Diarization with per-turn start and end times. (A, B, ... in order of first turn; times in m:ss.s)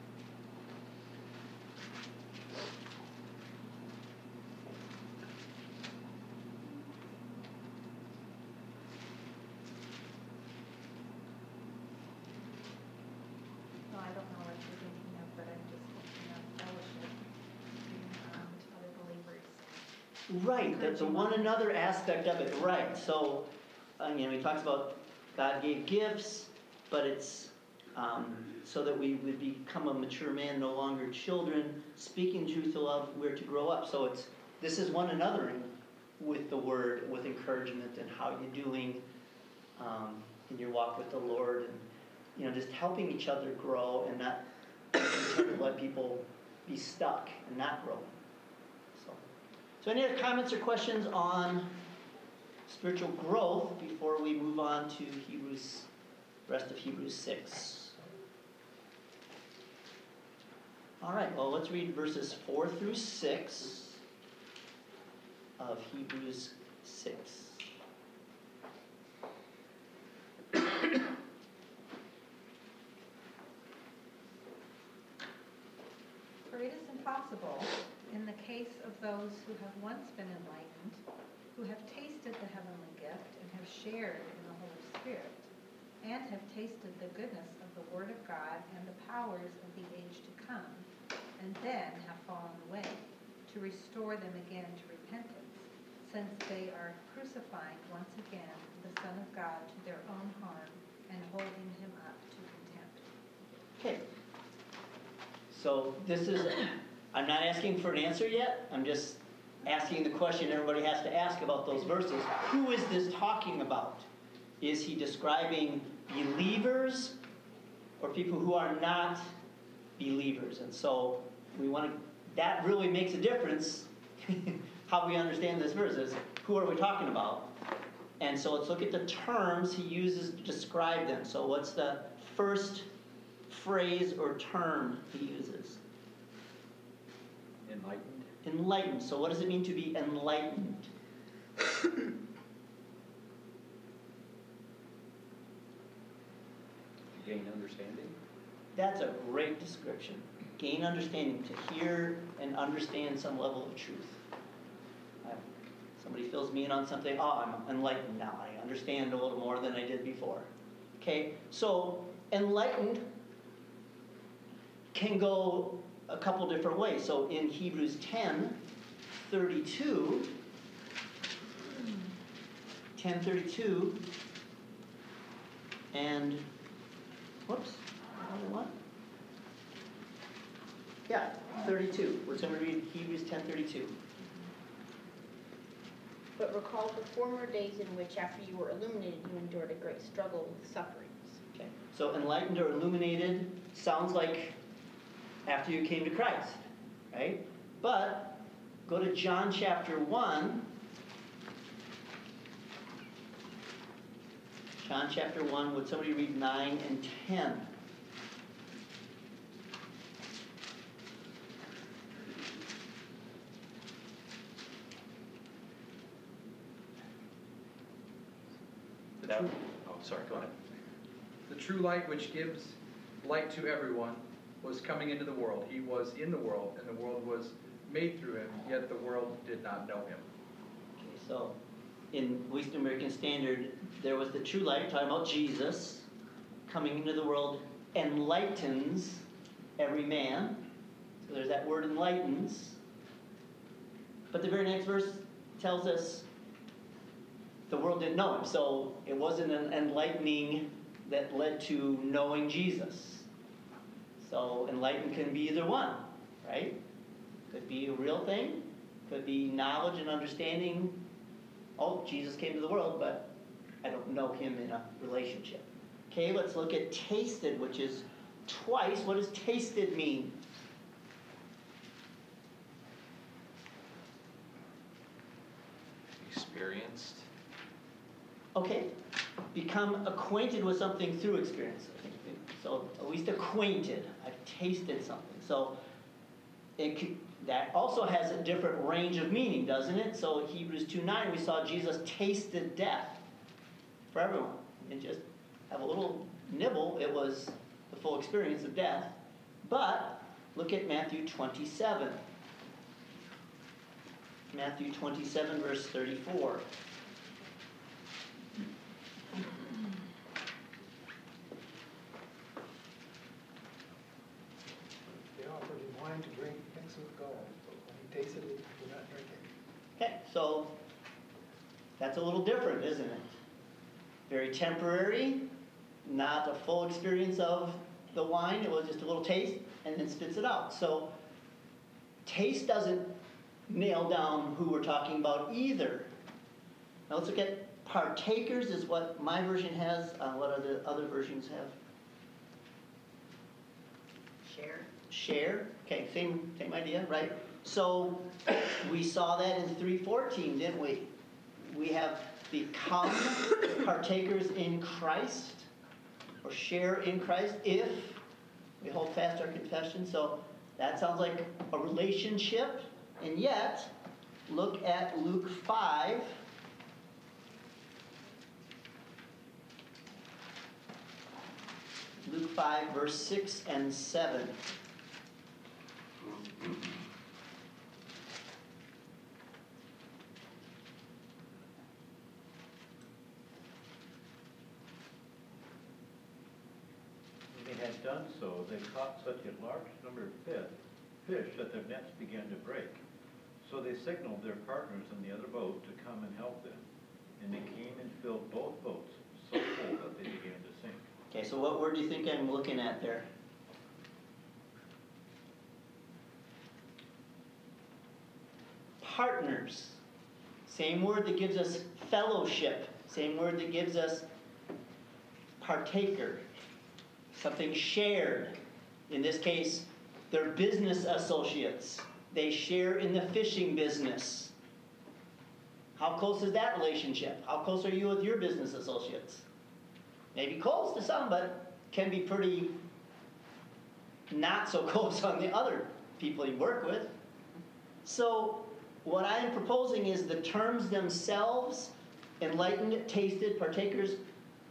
0:13.9-0:17.2 A
0:17.8-0:19.9 A
0:20.3-0:39.0 B
0:20.6-0:21.6 A
0:39.8-0:48.1 B
0:48.9-0:49.2 B
0:49.8-0:51.8 B
0:52.6-0:55.9 B
0:56.5-0:58.0 B
1:01.0-1:04.0 B
1:05.6-1:07.7 B
1:16.4-1:21.0 A
1:21.5-1:25.5 A
1:26.0-1:43.1 A
1:43.8-1:44.0 B
1:45.5-1:54.1 B
1:54.6-1:57.2 B
1:58.0-1:59.3 B
2:00.0-2:07.5 B
2:08.2-2:12.9 B
2:13.5-2:15.8 B
2:17.6-2:18.3 C
2:18.4-2:20.9 B
2:27.2-2:28.1 C
2:28.7-2:34.2 B
2:35.2-2:43.1 B
2:44.9-2:50.4 B
2:52.9-2:54.0 B
2:55.9-2:56.5 B
2:57.5-2:58.7 B
3:01.0-3:04.0 B
3:06.4-3:11.4 D
3:11.5-3:14.6 B
3:15.4-3:20.7 B
3:24.8-3:27.7 B
3:39.2-3:39.5 C
3:39.2-3:40.5 E
3:41.5-3:50.2 C
3:51.0-3:51.6 B
3:52.1-3:56.1 B
3:56.7-3:59.2 B
3:59.8-4:00.7 B
4:01.2-4:02.8 B
4:04.3-4:06.3 B
4:07.7-4:13.3 B
4:14.2-4:16.8 B
4:17.5-4:21.0 B
4:21.8-4:30.4 B
4:36.2-4:37.3 E
4:38.5-4:38.9 B
4:39.5-4:45.8 B
4:46.8-4:53.2 B
4:54.1-5:02.2 B
5:04.5-5:06.6 B
5:15.3-5:19.5 F
5:20.0-5:20.8 B
5:22.0-5:23.4 B
5:24.3-5:25.5 B
5:26.0-5:31.1 B
5:32.2-5:36.1 B
5:37.1-5:41.7 B
5:45.1-5:55.7 B
5:56.4-5:58.2 B
5:58.8-6:03.9 B
6:04.5-6:06.4 B
6:12.2-6:14.6 B
6:27.5-6:30.7 G
6:31.2-6:33.0 G
6:33.6-6:36.8 G
6:37.4-6:41.0 G
6:41.3-6:43.3 B
6:49.0-6:50.0 B
6:50.6-6:54.3 B
6:55.6-6:56.4 B
6:57.3-7:04.5 B
7:05.9-7:09.5 B
7:10.3-7:12.8 B
7:14.3-7:17.2 B
7:18.0-7:24.2 B